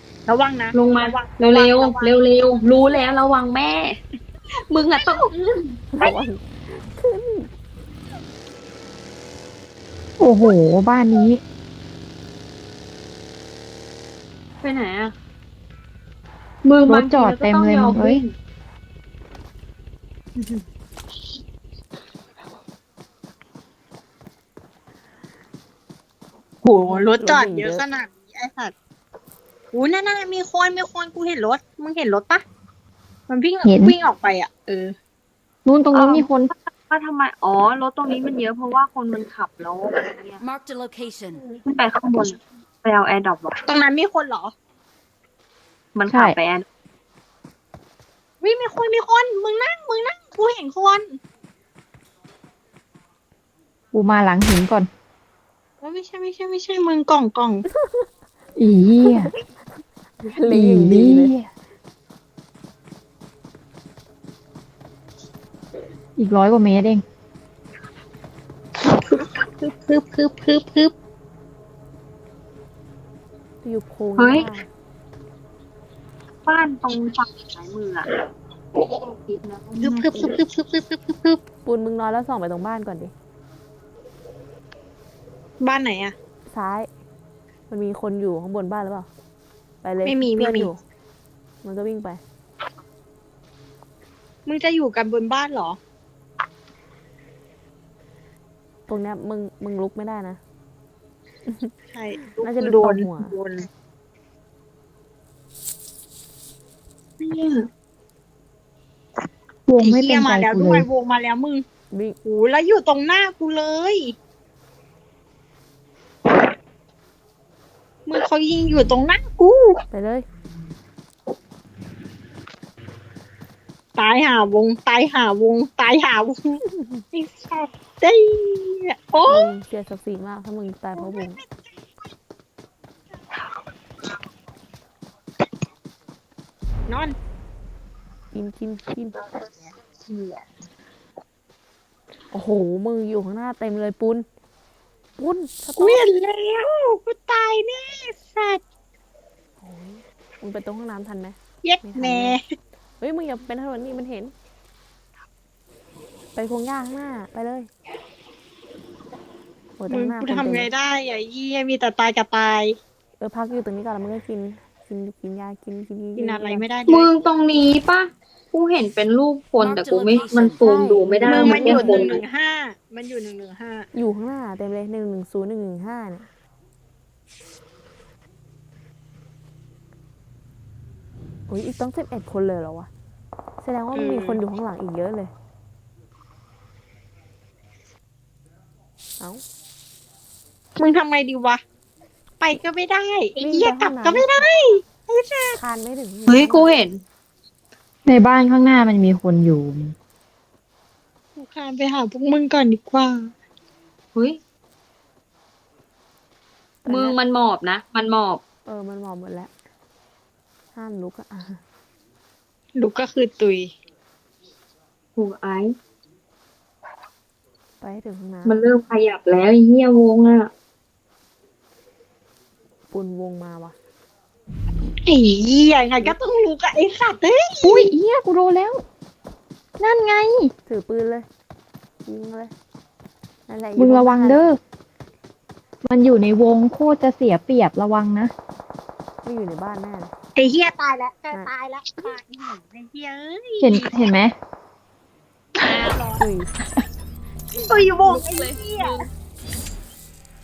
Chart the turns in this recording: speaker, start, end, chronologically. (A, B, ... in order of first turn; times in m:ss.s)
0:00.3-0:02.2 A
0:00.7-0:04.0 B
0:04.7-0:06.2 B
0:05.0-0:05.3 A
0:05.9-0:07.5 C
0:10.2-0:11.4 D
0:14.6-0:15.1 B
0:16.6-0:18.3 B
0:16.9-0:18.2 D
0:26.6-0:28.7 A
0:26.8-0:27.9 C
0:29.7-0:32.4 A
0:33.3-0:35.0 A
0:33.6-0:34.0 D
0:35.6-0:36.5 D
0:35.9-0:40.4 B
0:40.4-0:41.5 E
0:41.6-0:43.6 B
0:43.6-0:44.5 A
0:46.0-0:46.6 B
0:46.1-0:46.4 D
0:48.4-0:51.2 A
0:53.9-0:54.9 D
0:55.8-0:57.6 A
0:57.7-0:58.1 C
0:58.6-0:59.3 D
0:59.0-0:59.4 C
1:00.2-1:01.4 C
1:00.5-1:01.4 D
1:06.2-1:07.0 D
1:08.9-1:10.9 A
1:13.6-1:14.7 C
1:14.2-1:14.5 B
1:16.5-1:18.1 B
1:19.0-1:20.4 B
1:19.8-1:21.4 A
1:21.6-1:23.1 C
1:25.6-1:26.2 A
1:26.5-1:26.9 C
1:27.7-1:29.1 C
1:29.8-1:30.8 C
1:30.0-1:30.7 A
1:31.6-1:32.2 C
1:34.5-1:35.8 A
1:38.9-1:40.4 C
1:41.5-1:43.4 C
1:41.9-1:43.7 A
1:47.2-1:47.7 B
1:49.7-1:50.9 D
1:49.8-1:51.6 A
1:51.9-1:52.2 C
1:52.2-1:54.2 A
1:58.1-1:59.8 A
1:59.9-2:00.3 C
2:04.0-2:06.6 A
2:06.7-2:07.0 C
2:07.1-2:09.5 A
2:09.3-2:11.4 C
2:11.0-2:11.4 A
2:16.9-2:17.2 A
2:18.3-2:19.2 C
2:22.3-2:24.3 C
2:25.2-2:26.0 C
2:25.8-2:28.6 A
2:29.6-2:32.4 C
2:31.6-2:32.4 A
2:33.0-2:34.3 C
2:36.4-2:37.7 C
2:39.8-2:40.7 C
2:39.9-2:42.8 A
2:43.2-2:46.7 C
2:46.2-2:47.1 A
2:46.9-2:52.2 B
2:49.6-2:50.7 E
2:50.6-2:52.2 C
2:51.3-2:53.9 A
2:51.3-2:51.8 E
2:53.9-2:56.3 C
3:01.5-3:02.9 C
3:03.6-3:05.3 C
3:03.9-3:04.4 A
3:10.8-3:11.6 A
3:12.4-3:15.6 A
3:13.4-3:14.5 C
3:15.6-3:16.7 C
3:16.3-3:17.0 B
3:18.1-3:20.0 D
3:21.4-3:23.3 A
3:26.8-3:27.2 C
3:26.9-3:28.4 B
3:28.6-3:29.5 C
3:30.7-3:31.6 C
3:32.8-3:33.7 A
3:35.2-3:35.7 B
3:37.8-3:38.6 C
3:38.4-3:40.5 B
3:42.9-3:43.8 C
3:45.0-3:47.9 A
3:47.6-3:48.8 D
3:49.8-3:50.5 D
3:50.7-3:51.3 C
3:52.0-3:52.5 C
3:53.5-3:54.4 C
3:53.8-3:54.6 D
3:55.9-3:58.3 D
3:59.2-4:00.1 C
4:00.4-4:03.9 A
4:03.6-4:04.3 D
4:05.6-4:06.2 A
4:05.6-4:06.0 B
4:06.2-4:06.5 C
4:07.5-4:09.0 A
4:07.9-4:09.1 B